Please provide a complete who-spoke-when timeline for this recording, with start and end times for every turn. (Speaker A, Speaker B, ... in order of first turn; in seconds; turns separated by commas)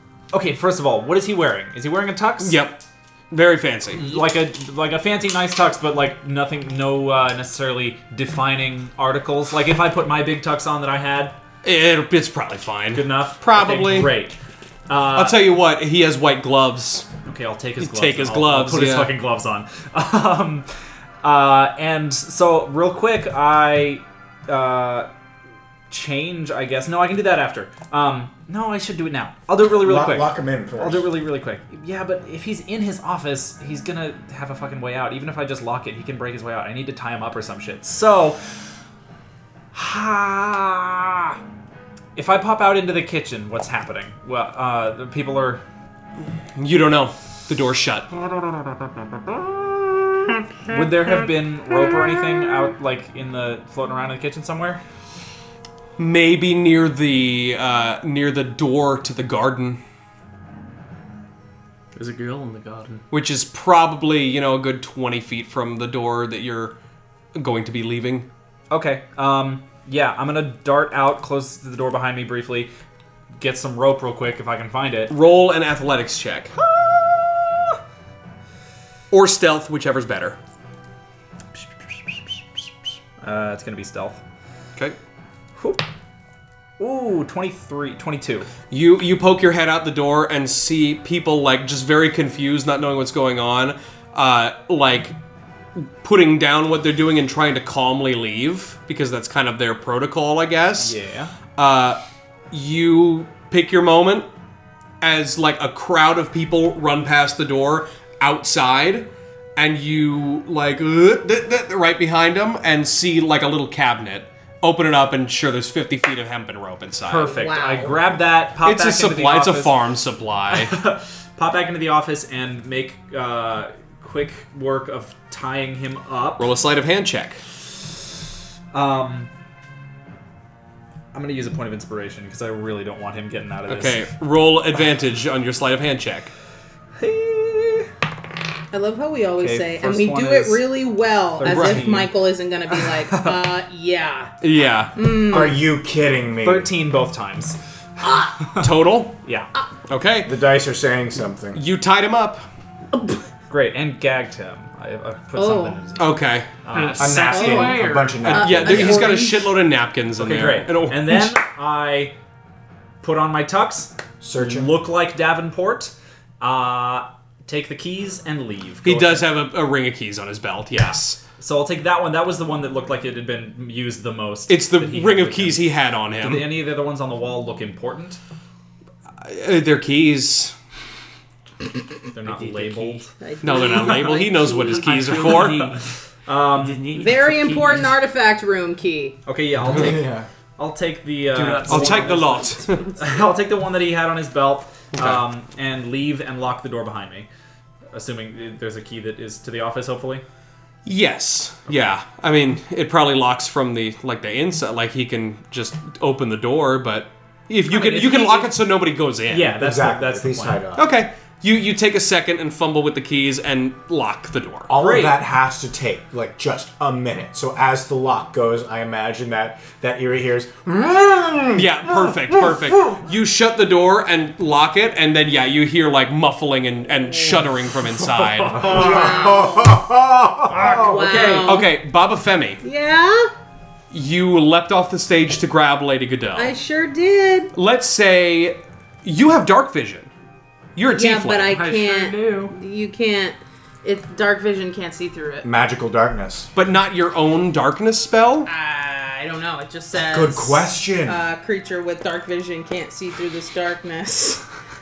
Speaker A: 0.3-2.6, Speaker B: 2.4-4.2, Speaker A: 3.9-11.4, Speaker B: 11.6-14.2, Speaker A: 12.9-14.4, Speaker A: 14.9-15.4, Speaker B: 15.1-17.1, Speaker A: 17.2-20.7, Speaker B: 17.8-19.2, Speaker A: 21.2-25.1, Speaker A: 25.9-38.4, Speaker C: 29.7-31.1, Speaker A: 39.7-41.4, Speaker A: 42.1-45.6, Speaker B: 46.6-48.1, Speaker A: 50.7-54.8, Speaker B: 56.0-59.8, Speaker D: 62.0-63.0, Speaker B: 63.1-66.8, Speaker B: 67.3-68.3, Speaker A: 68.7-72.7, Speaker A: 73.4-75.1, Speaker B: 75.1-76.5, Speaker A: 76.6-77.8, Speaker B: 79.1-80.4, Speaker A: 81.5-82.4, Speaker A: 83.2-84.2, Speaker A: 85.6-85.8, Speaker A: 86.8-88.5, Speaker B: 88.7-95.2, Speaker B: 95.8-101.0, Speaker A: 100.8-101.3, Speaker B: 101.6-102.0, Speaker B: 102.5-104.3, Speaker B: 105.0-117.3, Speaker A: 117.1-119.8, Speaker E: 117.2-118.0, Speaker B: 118.6-120.8, Speaker A: 120.5-126.5, Speaker B: 126.4-127.4, Speaker A: 128.7-129.3, Speaker A: 131.1-134.1, Speaker B: 133.7-136.3, Speaker A: 137.0-137.9, Speaker E: 138.7-144.3, Speaker A: 139.4-140.7, Speaker A: 141.4-142.1, Speaker B: 141.4-141.9, Speaker A: 142.7-143.4, Speaker B: 144.4-145.0, Speaker E: 144.9-145.6, Speaker C: 145.3-146.7, Speaker A: 146.4-147.6, Speaker E: 148.0-148.4, Speaker B: 148.6-149.2, Speaker A: 149.2-149.5, Speaker B: 149.9-150.3, Speaker C: 150.2-151.6, Speaker B: 151.5-152.4, Speaker A: 153.5-157.5, Speaker E: 155.3-155.8, Speaker B: 156.0-156.5, Speaker D: 156.7-158.2, Speaker C: 157.0-159.1, Speaker E: 157.3-159.5, Speaker B: 158.2-161.3, Speaker A: 160.2-162.1, Speaker A: 163.0-169.3, Speaker C: 164.2-164.7, Speaker B: 168.8-171.2, Speaker A: 171.4-178.2, Speaker B: 174.5-176.6, Speaker B: 179.2-180.5, Speaker A: 182.1-183.1, Speaker D: 182.3-183.0, Speaker E: 183.2-185.4, Speaker B: 183.4-185.7, Speaker D: 184.6-185.9, Speaker A: 185.4-186.9, Speaker D: 186.5-187.9, Speaker E: 186.9-189.2, Speaker A: 189.3-197.3, Speaker C: 189.7-190.3, Speaker D: 191.3-192.3, Speaker B: 191.3-192.9, Speaker B: 194.9-195.2, Speaker A: 197.9-200.2, Speaker B: 200.8-209.6, Speaker A: 207.7-208.6, Speaker A: 209.3-210.6, Speaker C: 209.5-210.9, Speaker B: 210.8-214.7, Speaker C: 214.7-222.7, Speaker A: 214.7-215.2, Speaker B: 221.5-228.8, Speaker C: 228.5-231.3, Speaker E: 228.6-229.8, Speaker E: 230.7-231.7, Speaker A: 230.7-231.5, Speaker D: 230.9-231.5, Speaker B: 231.2-232.6, Speaker E: 232.6-233.3, Speaker B: 233.9-236.5, Speaker E: 236.3-237.5, Speaker B: 237.5-240.1, Speaker B: 240.8-241.6, Speaker E: 240.9-245.5, Speaker D: 241.5-242.6, Speaker C: 245.4-246.5, Speaker B: 246.6-248.5, Speaker E: 248.5-254.4, Speaker C: 250.1-251.2